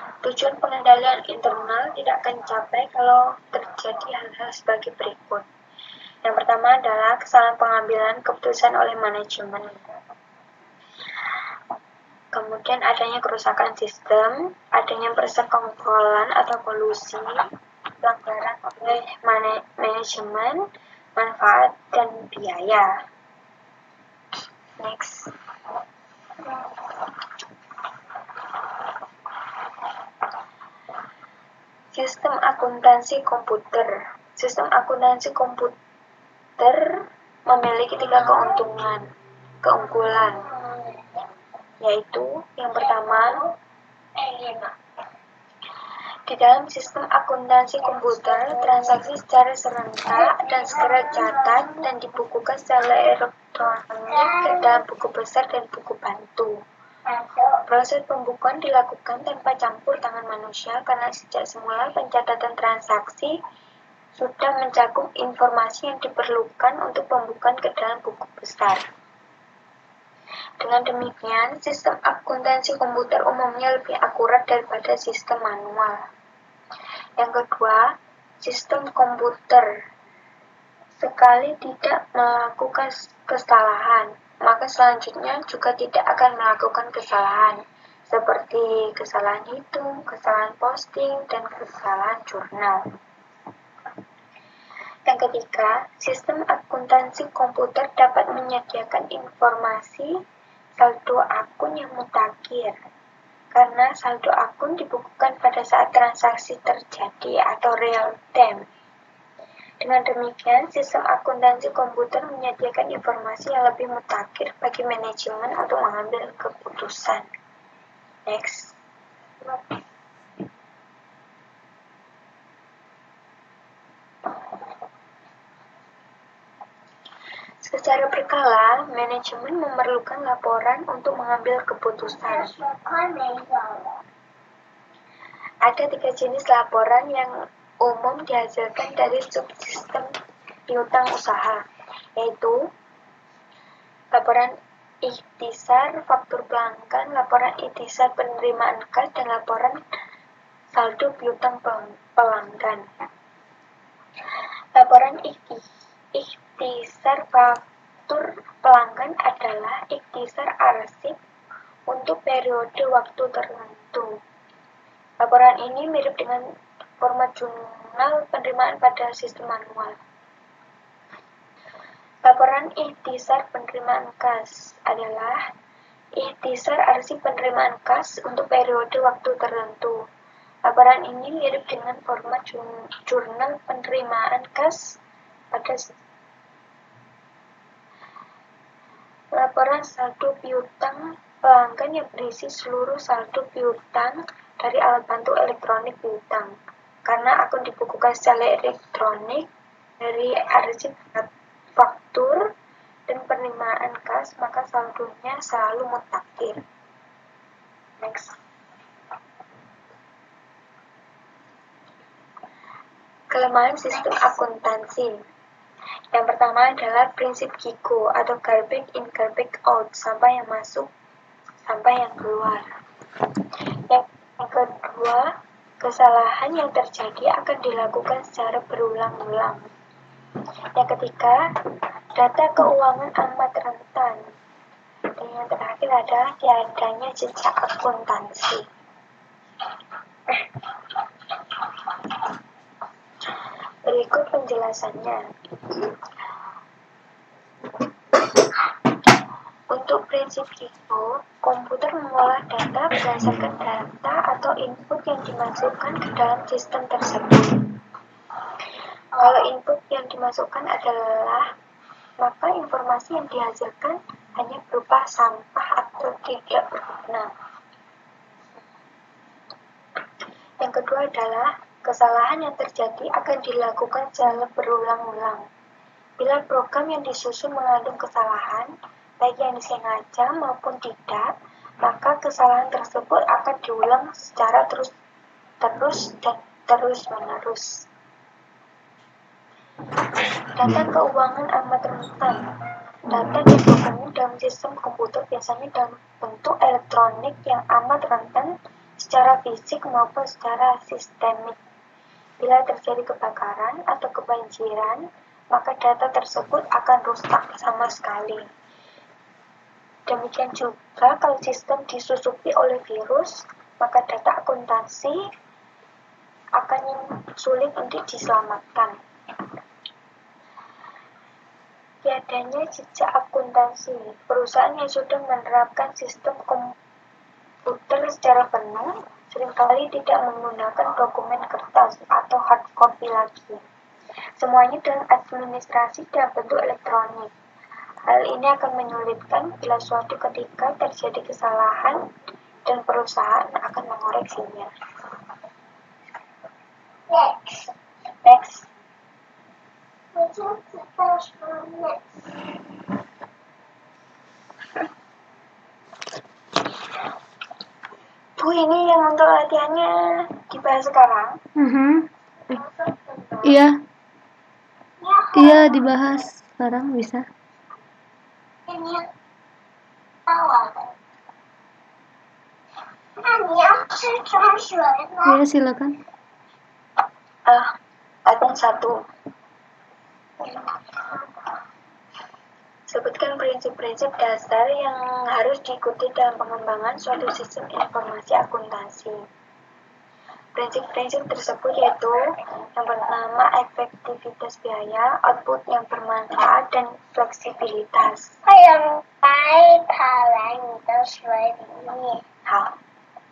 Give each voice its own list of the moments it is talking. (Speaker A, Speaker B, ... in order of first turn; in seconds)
Speaker A: 0.2-5.5, 6.2-9.8, 12.3-17.3, 18.0-20.7, 21.2-22.9, 24.8-25.3, 31.9-35.8, 36.6-39.0, 39.6-40.4, 41.8-43.4, 46.3-56.5, 57.7-63.4, 64.2-68.8, 70.6-76.0, 77.2-79.7, 81.0-92.8, 95.1-100.1, 100.8-102.8, 103.5-108.7, 109.8-117.3, 118.3-118.8, 127.6-132.5, 135.6-140.1, 140.7-141.6, 142.2-142.6, 144.1-149.8, 150.7-152.8, 154.8-155.6, 156.1-161.2, 161.9-164.1, 165.2-166.4, 167.0-170.0, 172.2-175.4, 176.2-180.0, 180.7-185.0, 185.5-186.0, 189.3-196.5, 197.1-199.5, 200.0-202.5, 203.1-206.6, 208.0-208.3, 213.3-215.1, 216.1-220.9, 221.7-222.7, 223.9-229.6, 230.8-231.4, 232.2-234.2, 235.2-238.7, 243.8-245.2, 249.7-257.7, 259.2-261.5, 262.2-267.3, 270.6-275.4, 276.2-281.3, 281.8-284.9, 285.6-287.9, 290.5-292.4, 293.1-301.6, 302.4-308.4, 310.1-315.2, 316.6-318.9, 322.0-326.7, 327.7-333.6, 334.4-337.3, 338.1-342.0, 342.7-344.7, 348.2-348.7, 358.4-361.4, 377.5-377.7, 378.3-378.9, 382.9-389.2, 390.6-392.2, 392.8-398.3, 402.5-402.7
Speaker B: 38.0-38.7, 39.8-41.0, 42.8-43.4, 44.2-44.7, 47.8-49.0, 50.1-51.8, 54.1-54.8, 57.1-57.6, 132.1-134.0, 259.2-259.5, 347.1-347.7, 350.1-352.4, 362.5-363.4, 365.0-366.0, 368.7-369.1, 370.3-370.9, 373.2-375.4, 380.4-380.7, 398.5-402.2
Speaker C: 361.6-362.6, 363.4-363.8, 365.4-367.2, 375.3-376.0